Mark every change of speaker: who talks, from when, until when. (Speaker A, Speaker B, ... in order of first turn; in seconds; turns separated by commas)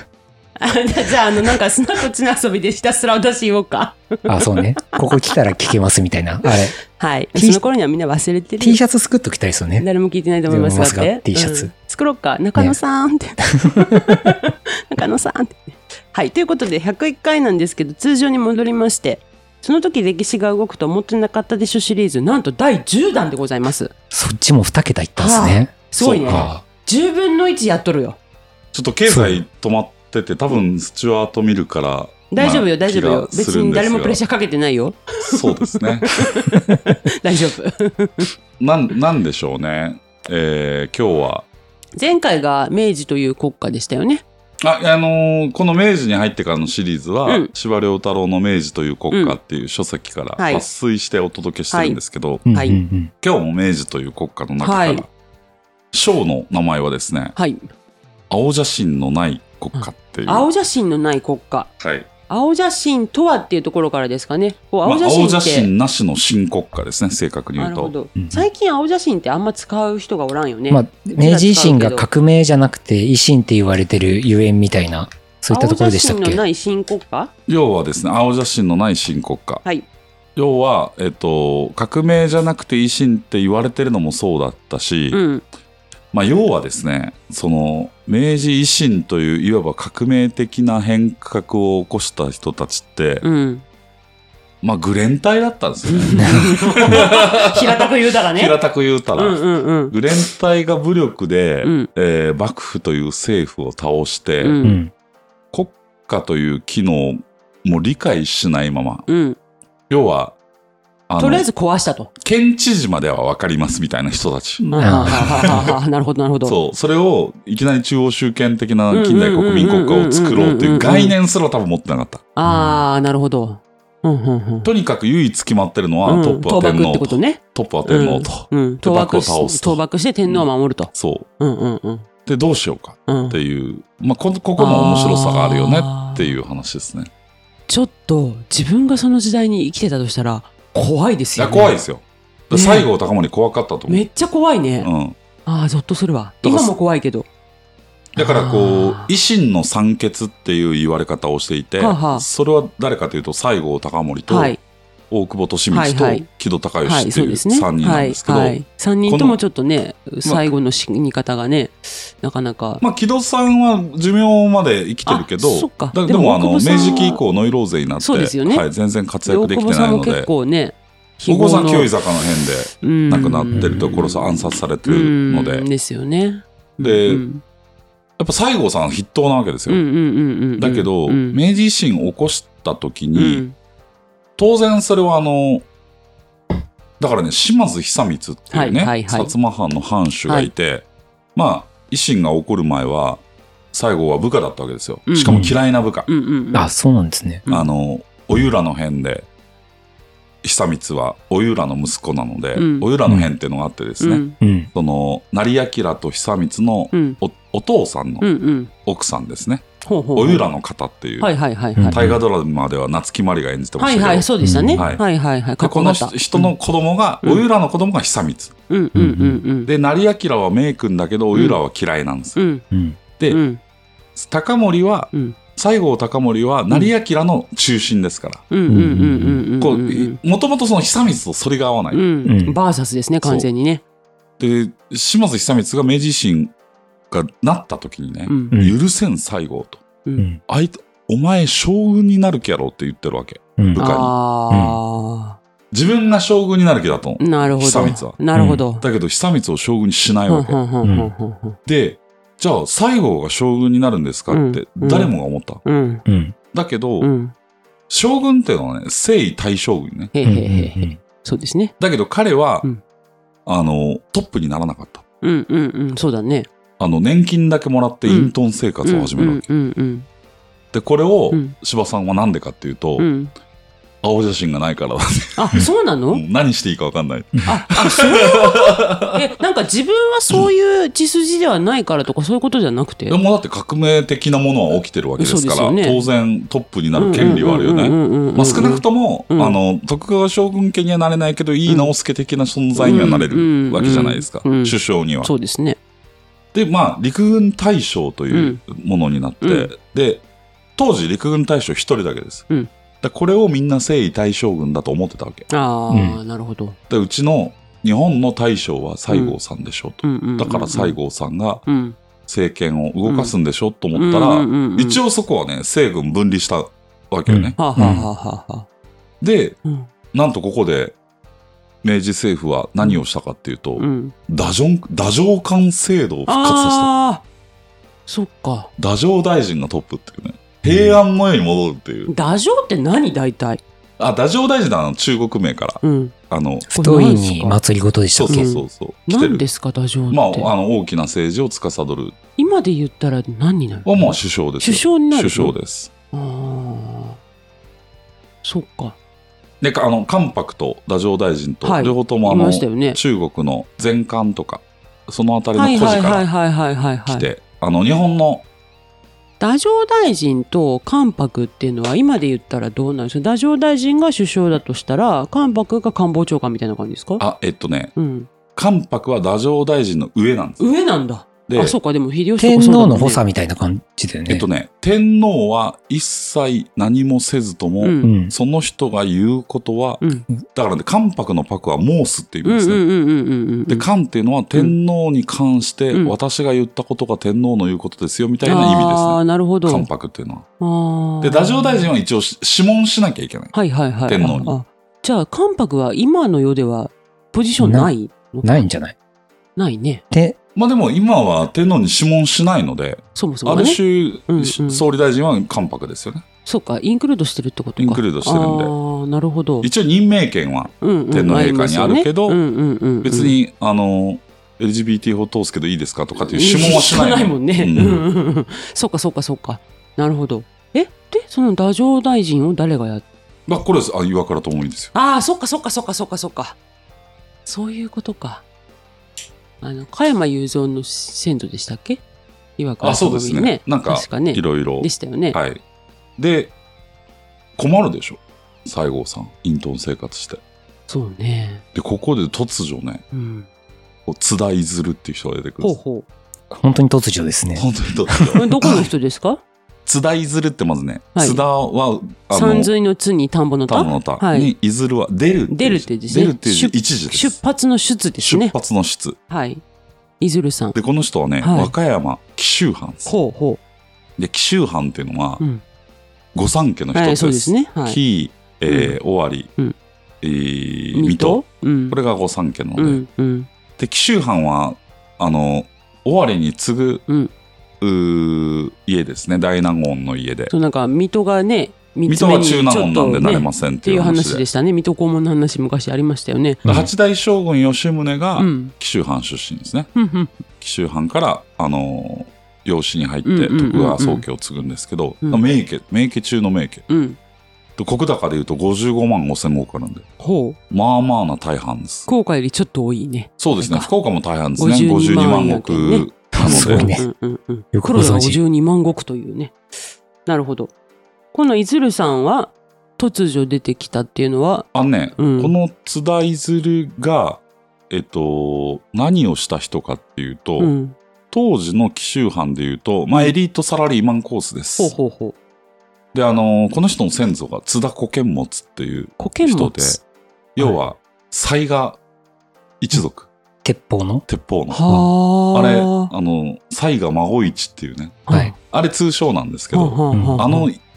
Speaker A: 0.6-5.0, Speaker B: 4.3-6.8, Speaker A: 6.9-8.8, Speaker B: 7.3-7.6, Speaker B: 8.6-9.9, Speaker A: 9.8-23.9, Speaker B: 10.5-11.7, Speaker B: 13.8-14.4, Speaker B: 24.1-25.7, Speaker A: 25.2-28.2, Speaker C: 26.0-26.5, Speaker B: 26.3-26.6, Speaker C: 28.7-34.2, Speaker B: 29.1-29.4, Speaker A: 32.3-38.3, Speaker C: 35.2-36.2, Speaker C: 38.6-41.5, Speaker A: 42.0-44.2, Speaker C: 44.6-52.5, Speaker A: 49.1-49.4, Speaker A: 50.4-50.6, Speaker A: 51.7-52.0, Speaker B: 52.5-53.1, Speaker A: 52.5-52.8, Speaker C: 53.2-55.1, Speaker A: 54.6-55.0, Speaker C: 55.9-57.4, Speaker A: 57.4-57.7, Speaker C: 58.3-60.5, Speaker A: 59.8-61.7, Speaker C: 61.8-62.1, Speaker A: 62.3-65.7, Speaker C: 64.8-67.9, Speaker A: 67.6-72.1, Speaker B: 68.2-68.5, Speaker B: 70.7-76.4, Speaker A: 75.5-77.3, Speaker C: 77.5-79.6, Speaker C: 80.4-85.2, Speaker A: 85.1-85.4, Speaker C: 86.1-93.3, Speaker A: 93.2-93.6, Speaker C: 94.6-104.6, Speaker A: 95.9-98.6, Speaker A: 99.2-100.3, Speaker A: 101.6-101.9, Speaker A: 104.4-104.8, Speaker B: 104.6-104.9, Speaker C: 105.5-109.1, Speaker A: 109.1-109.4, Speaker C: 109.9-110.4, Speaker C: 111.1-111.5, Speaker A: 111.2-112.1, Speaker C: 112.2-115.8, Speaker A: 114.6-116.6, Speaker B: 114.8-115.6, Speaker C: 116.5-122.2, Speaker A: 118.9-121.2, Speaker A: 122.4-124.7, Speaker B: 122.5-122.8, Speaker C: 124.7-131.3, Speaker A: 126.1-132.1, Speaker C: 132.3-137.1, Speaker A: 133.1-133.4, Speaker A: 134.6-136.3, Speaker A: 137.7-141.8, Speaker C: 141.4-144.0, Speaker A: 142.5-142.9, Speaker A: 143.9-144.9, Speaker C: 144.8-145.2, Speaker A: 145.5-147.3, Speaker C: 146.4-146.7, Speaker A: 148.2-149.1, Speaker C: 148.2-154.6, Speaker A: 151.8-152.3, Speaker A: 154.3-154.6, Speaker C: 155.1-159.4, Speaker A: 155.7-156.3, Speaker A: 156.8-162.8, Speaker C: 162.8-170.3, Speaker A: 165.1-167.2, Speaker A: 168.0-168.7, Speaker A: 169.2-171.9, Speaker C: 171.3-175.7, Speaker A: 172.8-177.4, Speaker B: 173.6-173.8, Speaker C: 176.8-177.2, Speaker C: 178.2-179.8, Speaker A: 179.7-181.4, Speaker C: 180.6-183.4, Speaker A: 183.2-183.6, Speaker C: 184.4-185.7, Speaker C: 187.0-196.1, Speaker A: 188.5-189.3, Speaker A: 195.1-195.5, Speaker B: 195.2-195.5, Speaker A: 196.1-196.7, Speaker B: 196.5-197.4, Speaker C: 197.5-199.3, Speaker C: 200.4-208.3, Speaker A: 202.6-202.9, Speaker B: 203.1-203.3, Speaker A: 204.0-204.4, Speaker B: 204.4-204.7, Speaker A: 206.9-207.2, Speaker A: 208.2-208.7, Speaker C: 208.8-215.0, Speaker A: 209.8-210.5, Speaker A: 211.2-212.1, Speaker B: 211.8-212.2, Speaker A: 213.8-216.6, Speaker B: 214.4-214.9, Speaker C: 215.6-218.6, Speaker A: 218.7-219.7, Speaker B: 218.9-219.4, Speaker C: 219.7-222.4, Speaker A: 221.3-221.6, Speaker A: 222.4-222.7, Speaker B: 222.7-223.0, Speaker A: 223.3-223.6, Speaker C: 224.2-228.5, Speaker A: 225.1-225.4, Speaker A: 228.5-230.2, Speaker B: 228.7-229.4, Speaker C: 229.6-232.0, Speaker A: 231.9-233.8, Speaker B: 232.2-232.6, Speaker C: 234.4-236.5, Speaker C: 237.1-239.8, Speaker A: 238.3-238.6, Speaker C: 240.5-244.1, Speaker B: 243.6-243.8, Speaker A: 243.8-245.4, Speaker B: 244.5-244.8, Speaker C: 245.7-248.2, Speaker A: 247.2-248.8, Speaker B: 248.3-248.7, Speaker C: 248.8-250.6, Speaker A: 250.3-251.6, Speaker B: 250.8-251.1, Speaker C: 251.7-255.6, Speaker A: 254.3-255.1, Speaker A: 255.7-256.1, Speaker B: 256.1-256.4, Speaker C: 256.5-257.1, Speaker A: 257.0-257.3, Speaker C: 257.9-260.1, Speaker A: 260.1-261.8, Speaker B: 260.2-261.0, Speaker C: 261.8-262.7, Speaker C: 263.5-265.0, Speaker A: 265.2-266.5, Speaker C: 266.8-269.5, Speaker A: 268.1-270.1, Speaker C: 270.7-273.1, Speaker A: 273.0-273.3, Speaker C: 274.0-279.2, Speaker A: 275.4-276.2, Speaker A: 277.5-283.2, Speaker C: 283.1-295.3, Speaker A: 285.2-286.0, Speaker A: 287.0-289.6, Speaker A: 291.7-291.9, Speaker A: 292.8-295.8, Speaker C: 296.5-300.2, Speaker A: 298.3-298.6, Speaker A: 299.4-299.7, Speaker C: 300.8-302.5, Speaker C: 303.0-305.5, Speaker A: 305.5-306.8, Speaker B: 305.9-306.2, Speaker C: 306.9-311.7, Speaker A: 309.1-309.4, Speaker A: 310.0-311.0, Speaker A: 311.7-312.0, Speaker C: 312.3-317.6, Speaker A: 313.1-313.3, Speaker A: 313.9-315.0, Speaker B: 317.3-318.1, Speaker A: 317.6-318.7, Speaker C: 319.2-319.6, Speaker C: 320.1-321.0, Speaker C: 321.8-326.9, Speaker A: 323.8-324.1, Speaker A: 326.3-327.2, Speaker A: 328.1-328.7, Speaker C: 328.8-332.1, Speaker B: 330.6-331.0, Speaker A: 332.1-333.6, Speaker C: 334.0-336.7, Speaker A: 335.8-336.1, Speaker A: 336.7-337.6, Speaker B: 336.8-338.5, Speaker C: 338.1-339.5, Speaker A: 338.3-340.5, Speaker C: 340.1-342.2, Speaker A: 342.4-345.5, Speaker C: 343.9-345.9, Speaker A: 346.1-347.2, Speaker A: 348.4-349.0, Speaker C: 349.6-356.3, Speaker A: 351.6-353.0, Speaker A: 355.6-357.3, Speaker C: 357.1-358.4, Speaker A: 359.4-367.2, Speaker C: 367.2-367.9, Speaker A: 367.9-368.3, Speaker C: 368.6-370.7, Speaker A: 370.6-373.2, Speaker C: 371.5-371.8, Speaker B: 372.4-374.5, Speaker C: 374.3-382.8, Speaker A: 377.8-378.1, Speaker B: 378.0-378.3, Speaker A: 382.4-383.9, Speaker C: 383.7-390.5, Speaker A: 388.4-389.9, Speaker A: 390.6-391.9, Speaker C: 391.2-393.5, Speaker A: 393.5-398.6, Speaker C: 394.1-394.6, Speaker B: 397.6-398.9, Speaker A: 399.6-400.0, Speaker B: 400.1-400.4, Speaker C: 400.6-406.2, Speaker A: 403.1-404.8, Speaker A: 406.4-409.7, Speaker C: 407.8-408.7, Speaker C: 409.6-412.4, Speaker A: 410.8-413.4, Speaker C: 413.0-418.1, Speaker A: 416.2-423.0, Speaker C: 423.5-424.9, Speaker A: 424.9-426.6, Speaker A: 427.5-428.4, Speaker A: 429.6-432.0, Speaker A: 432.6-435.4, Speaker C: 432.8-435.6, Speaker C: 436.2-436.5, Speaker C: 437.6-440.4, Speaker A: 440.9-441.6, Speaker C: 441.8-443.0, Speaker A: 443.1-443.5, Speaker C: 444.1-445.8, Speaker A: 445.6-446.1, Speaker B: 446.5-448.4, Speaker C: 447.6-448.9, Speaker A: 448.4-449.4, Speaker C: 449.9-452.7, Speaker A: 451.1-451.4, Speaker A: 452.3-454.5, Speaker C: 453.7-457.4, Speaker A: 455.5-458.5, Speaker C: 458.2-459.2, Speaker A: 459.3-459.6, Speaker A: 460.2-460.8, Speaker C: 460.7-463.1, Speaker A: 461.4-461.7, Speaker A: 463.1-463.6, Speaker C: 464.2-465.4, Speaker C: 466.3-469.5, Speaker A: 466.9-468.0, Speaker A: 468.7-469.0, Speaker C: 470.2-473.0, Speaker A: 470.9-472.0, Speaker A: 472.8-473.5, Speaker C: 473.8-477.1, Speaker C: 477.8-480.5, Speaker A: 480.5-486.6, Speaker C: 482.1-484.4, Speaker B: 486.6-486.9, Speaker C: 486.7-489.9, Speaker A: 488.4-488.7, Speaker A: 490.0-490.4, Speaker C: 490.6-496.9, Speaker A: 493.2-494.2, Speaker A: 496.9-497.2, Speaker C: 497.8-500.1, Speaker A: 500.2-500.6, Speaker C: 500.7-502.1, Speaker A: 502.1-503.9, Speaker C: 503.4-506.9, Speaker A: 504.6-509.6, Speaker B: 506.4-507.1, Speaker B: 507.7-508.4, Speaker A: 510.3-510.7, Speaker A: 511.3-515.5, Speaker C: 514.7-520.7, Speaker A: 520.6-521.0, Speaker C: 521.3-525.0, Speaker A: 524.8-525.4, Speaker C: 526.1-530.0, Speaker A: 529.2-530.0, Speaker C: 530.6-532.0, Speaker C: 532.8-533.3, Speaker B: 533.6-534.2, Speaker C: 534.3-540.8, Speaker A: 534.7-536.1, Speaker A: 538.3-538.6, Speaker A: 539.7-540.7, Speaker B: 540.1-540.5